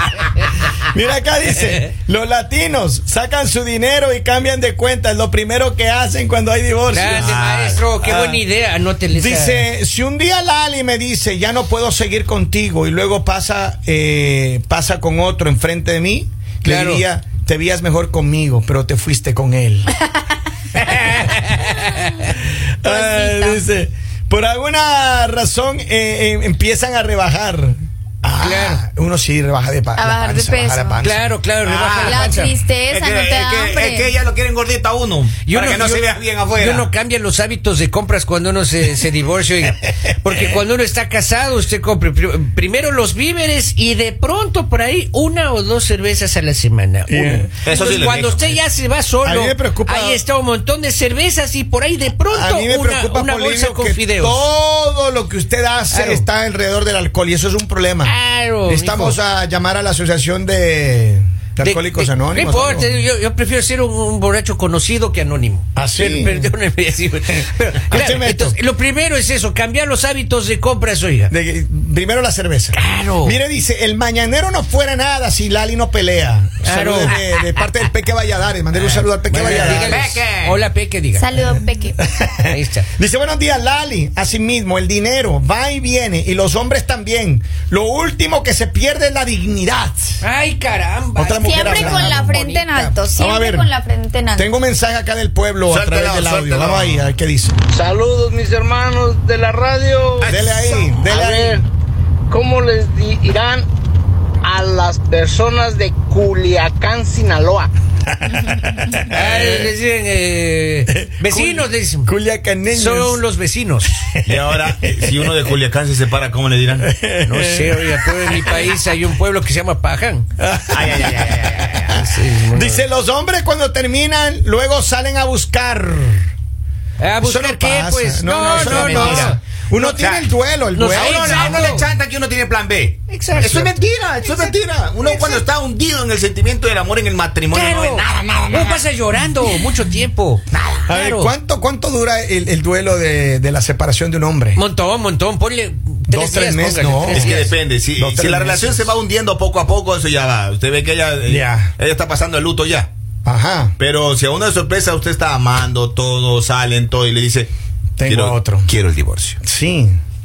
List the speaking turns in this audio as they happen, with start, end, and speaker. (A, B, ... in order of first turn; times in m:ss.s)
0:00.8-0:08.4 A
0:01.5-0:01.9 B
0:06.9-0:09.6 B
0:07.0-0:07.8 C
0:09.1-0:19.9 A
0:16.6-0:17.0 B
0:20.8-0:22.3 B
0:21.6-0:22.0 D
0:22.8-0:31.2 A
0:22.8-0:23.6 D
0:28.4-0:28.8 B
0:30.0-0:31.0 D
0:31.0-0:32.5 B
0:31.6-0:32.4 C
0:32.0-0:34.1 D
0:32.9-0:36.9 C
0:35.4-0:36.0 B
0:36.5-0:54.4 B
0:47.1-0:47.5 A
0:47.6-0:48.6 C
0:49.2-0:50.2 A
0:52.3-0:58.1 A
0:55.9-0:56.2 B
0:58.0-0:59.2 B
0:58.6-1:02.9 A
1:01.6-1:11.3 B
1:05.8-1:06.5 A
1:07.3-1:08.6 A
1:11.3-1:20.2 A
1:12.7-1:13.4 B
1:16.6-1:17.2 B
1:19.1-1:21.3 B
1:19.4-1:20.6 C
1:21.1-1:22.0 D
1:22.0-1:30.2 A
1:22.4-1:22.9 B
1:30.2-1:33.0 B
1:31.2-1:32.3 A
1:31.3-1:34.5 D
1:33.2-1:33.7 A
1:34.4-1:37.5 A
1:35.7-1:37.1 C
1:37.7-1:40.3 E
1:40.2-1:41.1 C
1:40.3-1:41.6 A
1:41.1-1:41.6 E
1:42.3-1:43.7 E
1:44.4-1:47.7 E
1:48.2-1:49.6 A
1:49.1-1:52.1 B
1:50.9-1:53.2 A
1:52.7-1:54.0 B
1:54.1-1:55.4 A
1:54.2-1:56.9 C
1:56.8-1:58.7 A
1:57.2-2:00.2 B
2:00.4-2:06.2 A
2:00.7-2:02.0 C
2:01.9-2:02.8 B
2:07.0-2:09.4 B
2:07.2-2:11.8 A
2:08.5-2:10.3 C
2:10.7-2:11.8 B
2:10.8-2:18.8 C
2:13.1-2:13.7 B
2:13.3-2:13.7 A
2:14.2-2:15.4 A
2:17.5-2:21.3 B
2:20.5-2:20.9 C
2:20.9-2:24.6 A
2:24.5-2:27.5 B
2:26.1-2:28.9 A
2:27.0-2:32.9 C
2:31.2-2:31.7 A
2:33.2-2:33.8 A
2:33.8-2:37.5 C
2:38.0-2:38.7 A
2:38.0-2:39.4 C
2:39.4-2:40.0 A